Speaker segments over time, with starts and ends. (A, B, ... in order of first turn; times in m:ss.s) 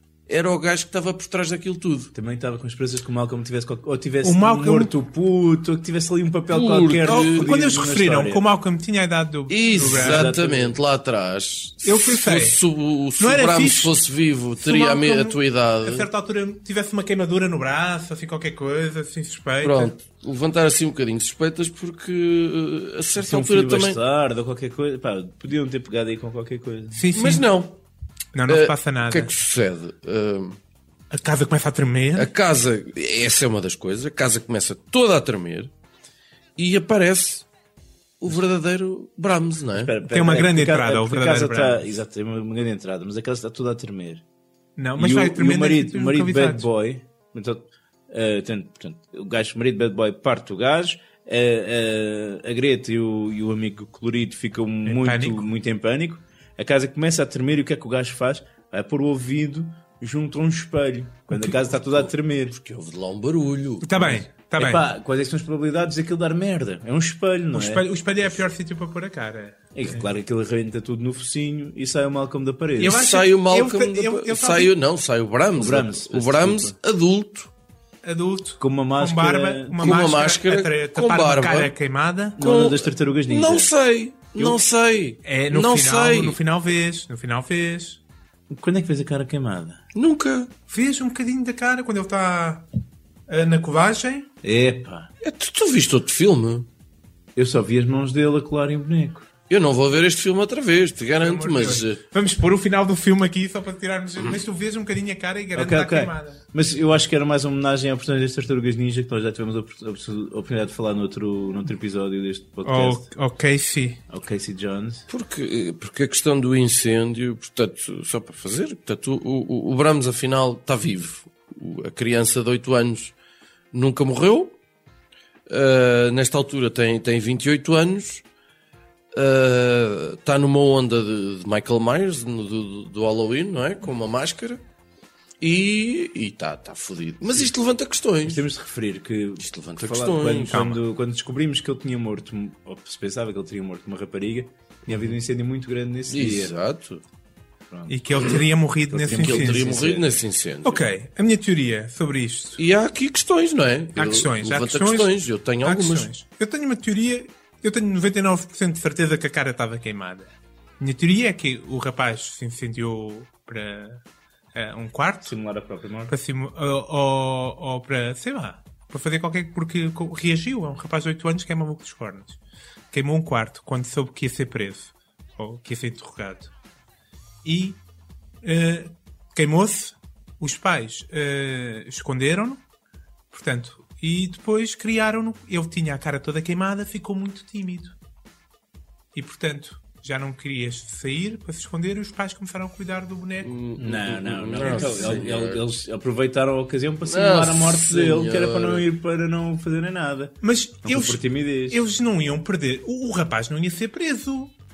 0:00.3-0:02.1 A
0:02.1-0:08.4 B
0:04.2-0:04.9 C
0:06.5-0:07.5 A
0:07.1-0:10.3 C
0:09.5-0:16.1 A
0:09.8-0:10.8 B
0:11.8-0:12.6 C
0:13.2-0:13.9 C
0:14.6-0:19.9 C
0:19.6-0:24.0 A
0:23.2-0:27.1 B
0:26.9-0:27.4 C
0:27.1-0:27.8 A
0:28.3-0:29.3 C
0:28.4-0:30.6 A
0:31.1-0:32.3 C
0:32.2-0:35.7 A
0:36.6-0:37.4 A
0:38.2-0:39.9 A
0:39.7-0:44.2 B
0:40.1-0:41.8 C
0:44.8-0:46.7 C
0:45.0-1:02.6 B
0:54.8-0:55.4 C
1:01.3-1:01.6 C
1:01.7-1:04.2 A
1:03.8-1:04.8 C
1:04.6-1:07.8 B
1:07.5-1:10.1 C
1:09.7-1:13.0 B
1:12.8-1:14.7 C
1:12.8-1:17.5 A
1:15.6-1:16.8 B
1:18.0-1:22.4 C
1:18.6-1:20.2 B
1:19.8-1:21.7 A
1:22.4-1:23.7 B
1:22.4-1:26.4 A
1:25.2-1:28.0 C
1:28.5-1:29.8 B
1:29.9-1:30.5 A
1:30.7-1:32.6 C
1:33.3-1:34.3 C
1:34.4-1:35.1 B
1:35.2-1:36.7 A
1:37.4-1:39.3 B
1:39.5-1:42.0 A
1:41.2-1:46.4 C
1:45.5-1:53.1 B
1:52.6-1:54.0 C
1:54.1-1:55.0 B
1:55.1-2:03.1 A
2:03.7-2:04.5 A
2:05.5-2:08.2 A
2:09.1-2:14.6 A
2:15.4-2:18.4 A
2:18.2-2:26.5 B
2:19.4-2:20.7 A
2:20.5-2:20.8 C
2:26.1-2:27.0 A
2:27.7-2:30.2 B
2:27.9-2:29.7 C
2:29.0-2:30.9 A
2:30.6-2:32.6 C
2:32.6-2:36.1 A
2:34.0-2:44.0 C
2:44.5-2:45.3 C
2:45.2-2:46.1 B
2:46.1-2:52.4 C
2:52.9-2:56.5 C
2:57.4-2:57.8 C
2:58.4-3:02.6 C
3:03.3-3:07.9 C
3:09.1-3:13.5 C
3:13.4-3:15.6 A
3:13.8-3:21.8 B
3:14.6-3:15.2 C
3:17.0-3:18.8 A
3:20.4-3:24.5 C